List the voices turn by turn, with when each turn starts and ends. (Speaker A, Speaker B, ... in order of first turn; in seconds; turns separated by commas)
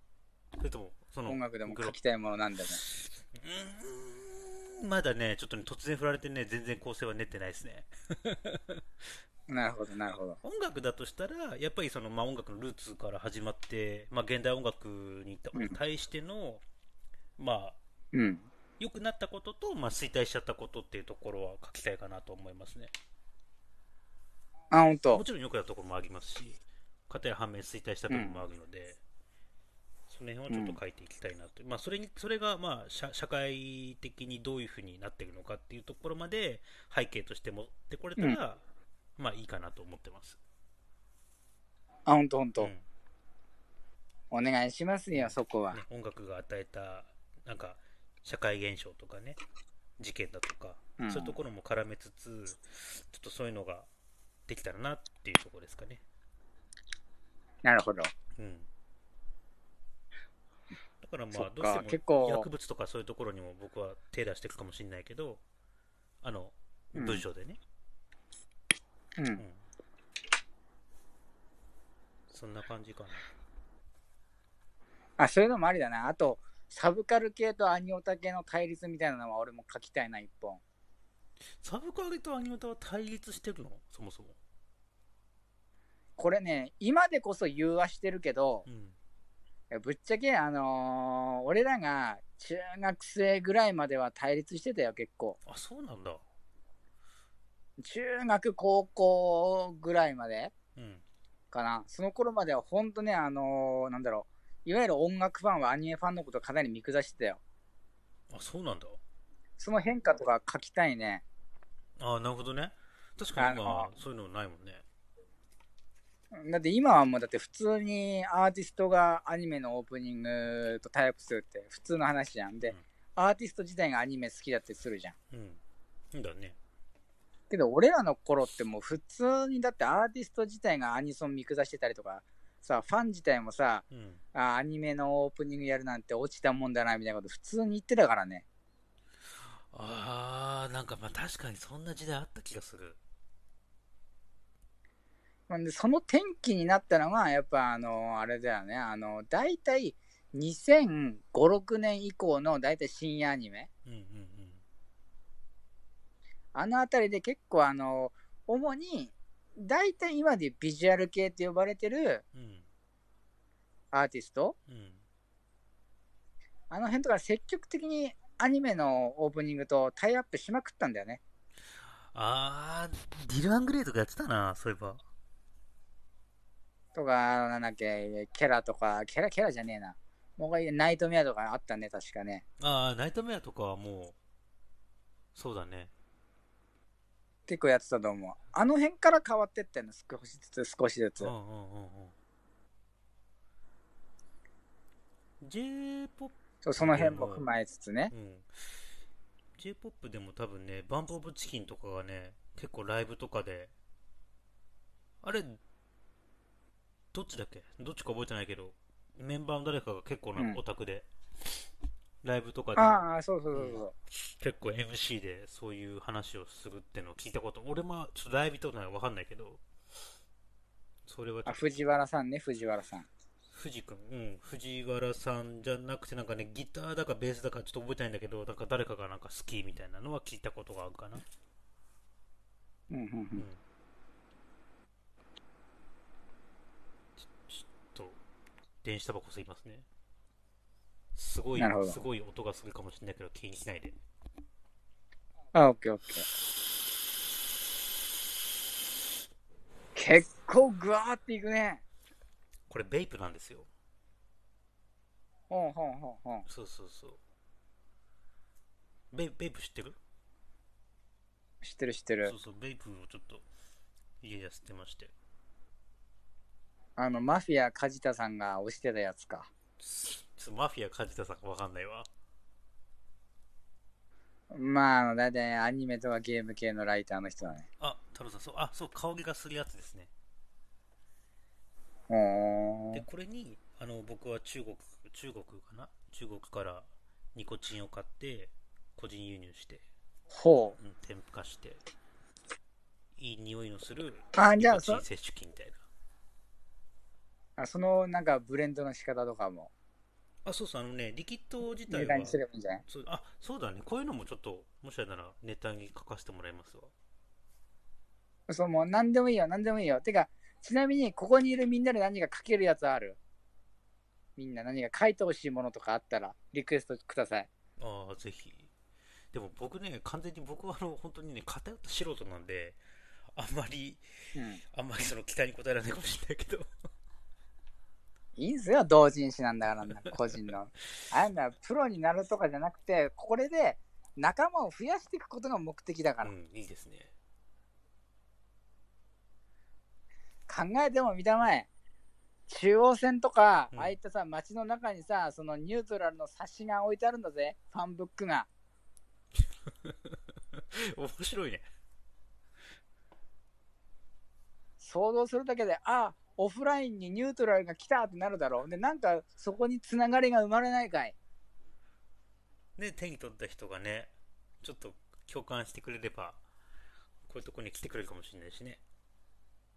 Speaker A: 0.6-2.0, Speaker B: 1.3-2.8, Speaker A: 2.8-8.8, Speaker B: 9.5-10.4, Speaker A: 10.4-16.6, Speaker A: 17.4-17.8, Speaker B: 18.1-18.5, Speaker A: 18.8-22.9, Speaker B: 24.7-25.2, Speaker A: 25.1-29.0, Speaker B: 28.1-28.4, Speaker A: 30.1-38.6, Speaker B: 30.5-30.8, Speaker A: 39.2-40.4, Speaker B: 42.1-42.7, Speaker A: 42.6-42.8, Speaker B: 44.3-45.8, Speaker A: 45.1-49.4, Speaker A: 50.0-53.9, Speaker B: 51.0-51.4, Speaker A: 54.5-56.0, Speaker B: 57.6-58.1, Speaker A: 58.4-58.7, Speaker A: 61.0-65.4, Speaker B: 61.3-62.5, Speaker A: 66.2-67.6, Speaker B: 67.0-67.2, Speaker B: 69.2-69.4, Speaker A: 69.4-69.6, Speaker A: 72.3-73.2, Speaker B: 75.2-80.6, Speaker A: 81.6-84.4, Speaker B: 86.2-88.7, Speaker A: 88.7-89.0, Speaker B: 89.7-95.4, Speaker A: 95.5-96.2, Speaker B: 97.8-100.5, Speaker A: 100.8-101.0, Speaker B: 101.5-107.4, Speaker A: 108.3-109.0, Speaker B: 109.6-111.2, Speaker A: 112.0-114.8, Speaker B: 113.4-113.9, Speaker B: 116.3-125.2, Speaker A: 125.3-125.6, Speaker A: 126.1-126.6, Speaker B: 127.5-133.8, Speaker A: 133.9-134.2, Speaker B: 134.3-138.4, Speaker A: 139.5-143.0, Speaker B: 145.5-153.7, Speaker A: 153.8-154.6, Speaker B: 156.6-162.2, Speaker A: 162.3-162.7, Speaker B: 163.9-164.6, Speaker A: 164.7-165.0, Speaker B: 166.7-171.2, Speaker A: 172.1-175.0, Speaker B: 176.9-182.4, Speaker A: 182.6-184.2, Speaker A: 185.3-185.9, Speaker B: 187.5-191.3, Speaker A: 191.2-192.2, Speaker A: 195.4-197.5, Speaker B: 196.6-198.1, Speaker A: 198.1-198.5, Speaker A: 199.6-203.7, Speaker A: 205.2-205.6, Speaker A: 207.1-211.1, Speaker A: 212.2-219.6, Speaker B: 212.8-213.9, Speaker A: 221.1-221.7, Speaker B: 221.5-223.1, Speaker A: 223.5-231.2, Speaker B: 232.9-233.5, Speaker A: 233.4-233.6, Speaker A: 237.2-238.2, Speaker A: 238.8-239.9, Speaker A: 241.2-244.0, Speaker B: 241.6-242.0, Speaker B: 245.5-246.3, Speaker B: 249.9-251.8, Speaker A: 252.7-253.7, Speaker B: 255.5-256.5, Speaker A: 256.5-257.2, Speaker A: 259.1-260.0, Speaker B: 261.6-262.3, Speaker A: 262.2-263.4, Speaker A: 264.2-265.1, Speaker B: 267.0-269.5, Speaker A: 269.8-272.1, Speaker B: 274.5-277.7, Speaker A: 277.8-280.1, Speaker B: 282.1-283.0, Speaker A: 282.9-289.9, Speaker B: 290.3-290.8, Speaker A: 290.8-291.8, Speaker A: 293.2-295.8, Speaker B: 294.4-295.1, Speaker B: 297.6-299.7, Speaker A: 300.4-306.9, Speaker B: 301.9-302.8, Speaker B: 308.5-313.2, Speaker B: 314.4-317.5, Speaker A: 317.8-318.7, Speaker A: 319.3-322.8, Speaker A: 323.4-324.0, Speaker B: 324.4-324.6, Speaker A: 324.7-326.7, Speaker B: 328.4-336.3, Speaker A: 336.2-337.1, Speaker B: 340.5-341.7, Speaker B: 342.5-348.5, Speaker A: 350.6-351.6, Speaker B: 354.8-361.1, Speaker A: 362.8-366.4, Speaker A: 367.3-368.8